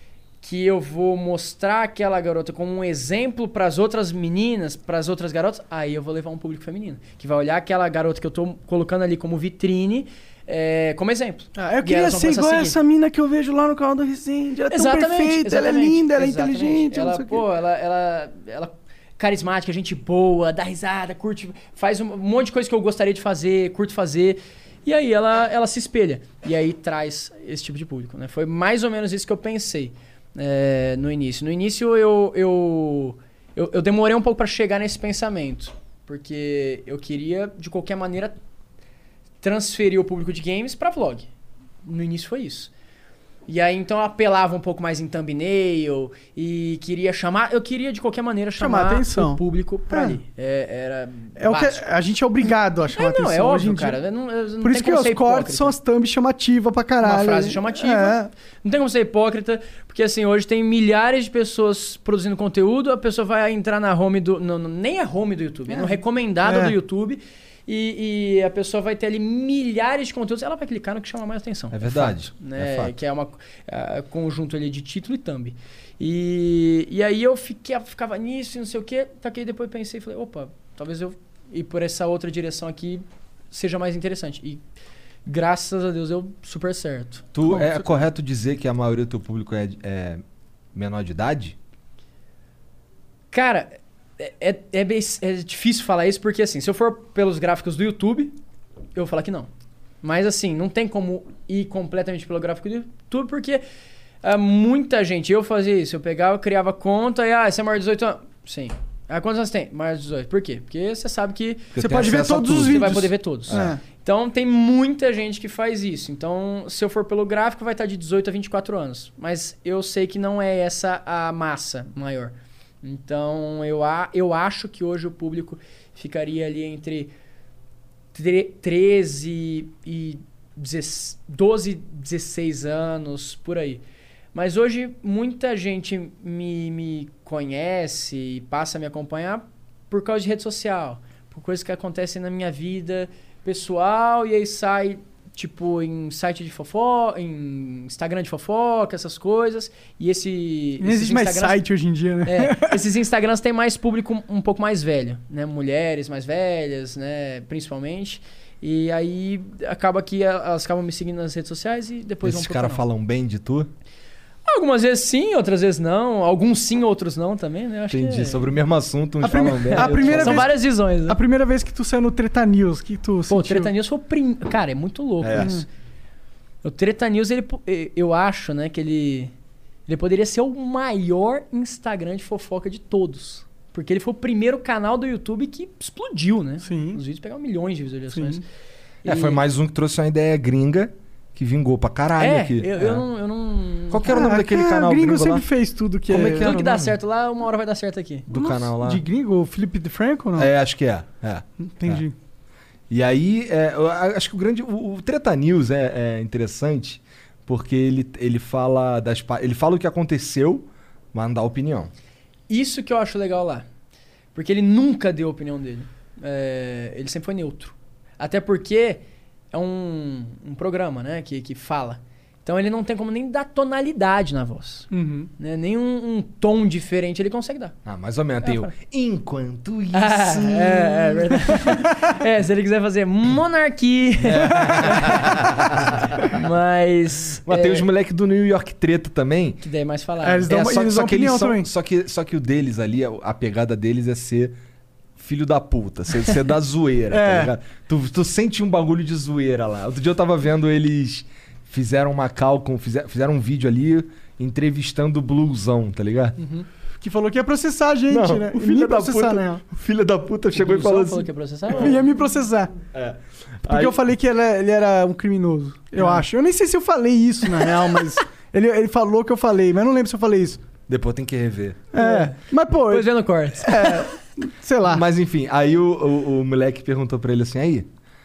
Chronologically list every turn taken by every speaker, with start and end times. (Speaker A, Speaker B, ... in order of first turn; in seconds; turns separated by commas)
Speaker A: 0.4-12.8, Speaker B: 11.6-17.4, Speaker A: 14.7-38.4, Speaker A: 39.4-41.3, Speaker A: 41.8-42.7, Speaker A: 43.5-51.8, Speaker B: 48.6-49.4, Speaker B: 49.9-50.2, Speaker B: 51.4-54.0, Speaker A: 53.0-55.8, Speaker B: 54.6-58.3, Speaker A: 57.0-84.6, Speaker B: 65.7-66.8, Speaker C: 71.7-72.9, Speaker A: 85.3-87.9, Speaker C: 87.3-90.2, Speaker C: 90.7-91.6, Speaker A: 93.3-98.4, Speaker A: 99.0-99.5, Speaker A: 100.0-103.6, Speaker A: 104.2-127.1, Speaker C: 111.7-113.8, Speaker B: 111.8-113.8, Speaker A: 128.1-133.8, Speaker A: 134.3-151.6, Speaker B: 150.8-152.8, Speaker A: 152.2-162.8, Speaker C: 162.2-163.7, Speaker A: 164.5-168.5, Speaker C: 167.9-170.5, Speaker B: 169.2-173.7, Speaker A: 169.7-171.2, Speaker A: 173.3-175.7, Speaker C: 175.2-175.5, Speaker B: 175.4-175.7, Speaker A: 176.6-179.3, Speaker A: 179.9-188.4, Speaker B: 186.6-187.0, Speaker B: 188.1-188.4, Speaker A: 189.0-189.4, Speaker C: 189.1-193.1, Speaker A: 192.2-194.3, Speaker C: 193.9-195.5, Speaker B: 194.1-196.9, Speaker C: 196.1-196.9, Speaker A: 196.2-198.3, Speaker C: 198.3-199.0, Speaker B: 198.3-200.5, Speaker C: 200.4-202.1, Speaker B: 201.7-202.1, Speaker C: 202.9-211.9, Speaker A: 212.5-213.7, Speaker A: 214.3-227.8, Speaker B: 224.9-225.3, Speaker C: 227.8-231.6, Speaker A: 228.4-228.7, Speaker A: 229.9-237.9, Speaker C: 234.2-236.2, Speaker C: 237.5-239.6, Speaker A: 239.6-240.5, Speaker B: 240.2-241.7, Speaker C: 240.5-244.6, Speaker C: 245.2-256.4, Speaker B: 247.1-247.5, Speaker A: 256.4-256.7, Speaker B: 257.0-259.6, Speaker C: 258.1-261.9, Speaker A: 260.5-262.0, Speaker B: 261.7-262.7, Speaker C: 262.9-264.0, Speaker B: 263.7-270.6, Speaker A: 266.0-266.2, Speaker C: 270.9-271.9, Speaker B: 271.9-275.0, Speaker A: 272.0-274.1, Speaker C: 274.9-277.9